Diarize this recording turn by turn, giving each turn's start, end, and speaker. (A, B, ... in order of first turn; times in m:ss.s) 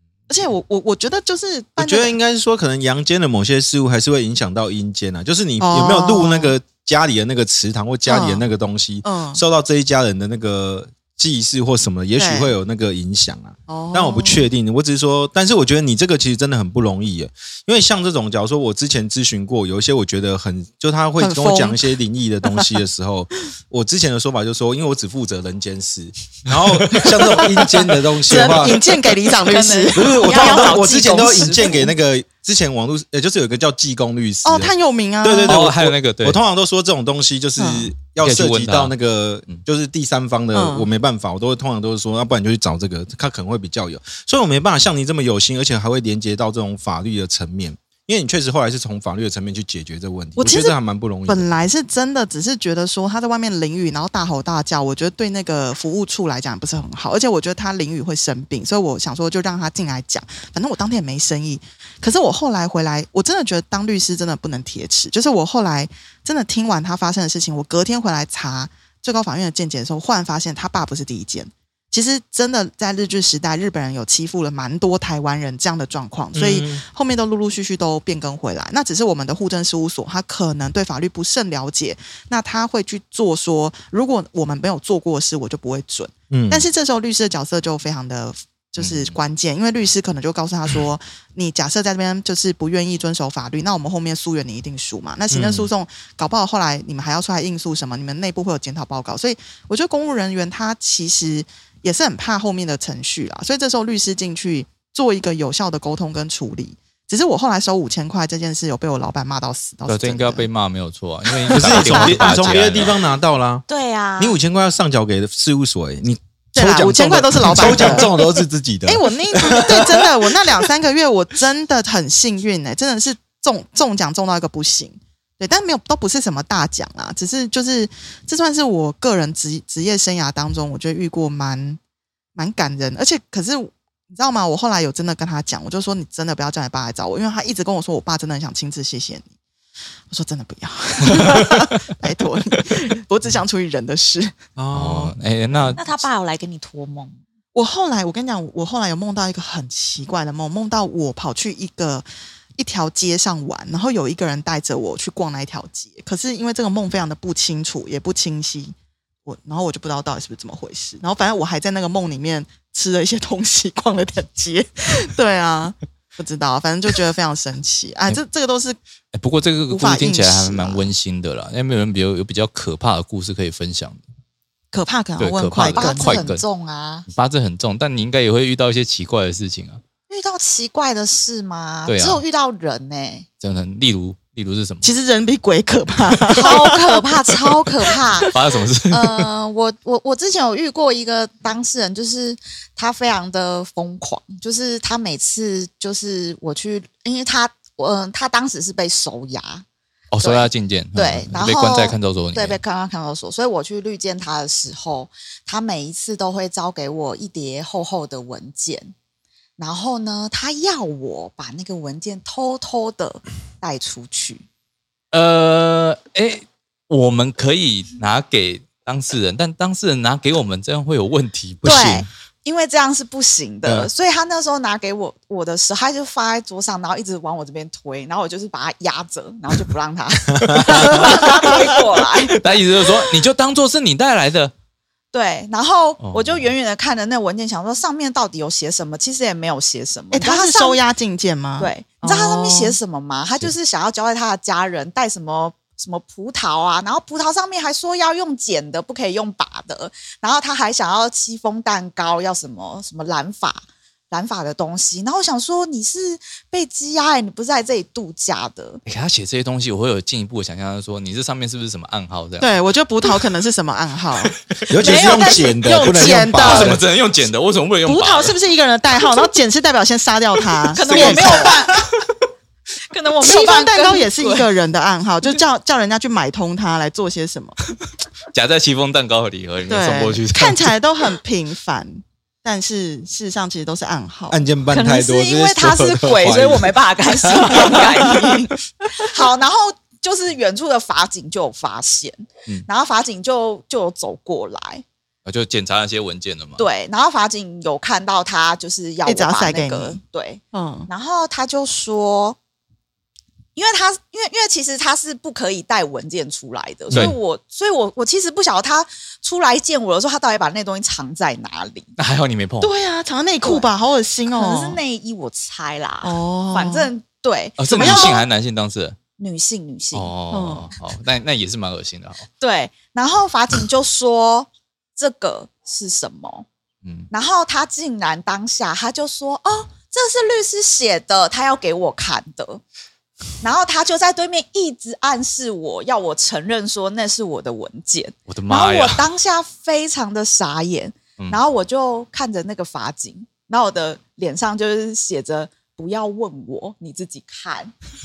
0:00.3-0:02.2 A
0:01.8-0:28.8 B
0:05.6-0:06.6 A
0:08.1-0:08.4 A
0:09.0-0:09.4 A
0:12.2-0:12.5 A
0:13.7-0:14.5 A
0:21.2-0:21.8 A
0:22.4-0:22.7 A
0:27.3-0:30.9 A
0:29.4-0:31.9 C
0:30.0-0:51.5 B
0:34.4-0:35.6 A
0:35.5-0:36.4 D
0:37.6-0:37.9 A
0:38.2-0:38.9 D
0:40.6-0:40.9 A
0:50.4-0:50.8 A
0:51.3-1:50.5 A
1:16.3-1:16.8 B
1:26.3-1:26.7 B
1:28.8-1:29.2 D
1:35.3-1:35.7 B
1:49.9-1:53.0 D
1:51.4-1:52.6 A
1:51.5-1:53.6 B
1:53.7-1:54.4 C
1:54.2-2:00.5 B
1:56.6-1:58.1 A
1:58.9-2:11.8 A
2:12.4-2:19.3 A
2:20.1-2:24.3 A
2:21.2-2:21.5 D
2:24.6-2:25.1 B
2:24.7-2:25.8 D
2:25.8-2:27.2 C
2:27.5-2:32.1 A
2:32.6-2:38.8 A
2:39.3-2:48.8 A
2:49.1-2:54.0 D
2:49.7-2:50.9 A
2:54.7-2:56.2 A
2:55.2-2:56.4 D
2:55.6-2:57.1 C
2:57.1-2:59.8 D
3:00.1-3:03.3 C
3:01.9-3:02.2 D
3:03.4-3:04.9 D
3:04.8-3:07.0 A
3:06.3-3:08.3 C
3:08.3-3:09.3 D
3:08.9-3:19.6 C
3:20.1-3:22.6 D
3:20.2-3:28.9 C
3:29.6-3:34.4 C
3:35.1-3:42.0 D
3:41.6-3:42.0 B
3:41.6-3:52.4 C
3:43.6-3:43.9 B
3:50.4-3:50.9 B
3:52.4-3:54.5 D
3:55.1-4:00.8 C
3:56.0-3:56.5 D
4:00.1-4:02.8 A
4:01.6-4:18.8 C
4:18.9-4:22.6 D
4:22.4-4:26.8 A
4:24.7-4:26.8 B
4:24.8-4:25.9 C
4:26.1-4:28.4 D
4:27.8-4:31.7 A
4:30.7-4:31.8 C
4:30.8-4:32.1 D
4:32.9-4:34.5 C
4:33.2-4:37.6 A
4:38.3-4:40.7 D
4:39.7-4:44.4 A
4:44.3-4:48.1 B
4:44.7-4:54.8 C
4:55.2-4:56.6 D
4:56.6-5:02.4 C
4:59.1-5:00.0 A
5:00.5-5:00.9 A
5:03.6-5:11.9 C
5:06.9-5:07.2 D
5:12.0-5:12.7 D
5:12.6-5:14.8 A
5:14.3-5:18.3 C
5:16.0-5:16.9 A
5:17.6-5:19.0 D
5:17.7-5:18.2 A
5:19.2-5:20.1 C
5:19.9-5:22.3 D
5:20.3-5:20.7 A
5:22.4-5:26.5 C
5:26.8-5:27.1 D
5:27.1-5:32.6 C
5:33.4-5:47.7 C
5:38.3-5:39.1 D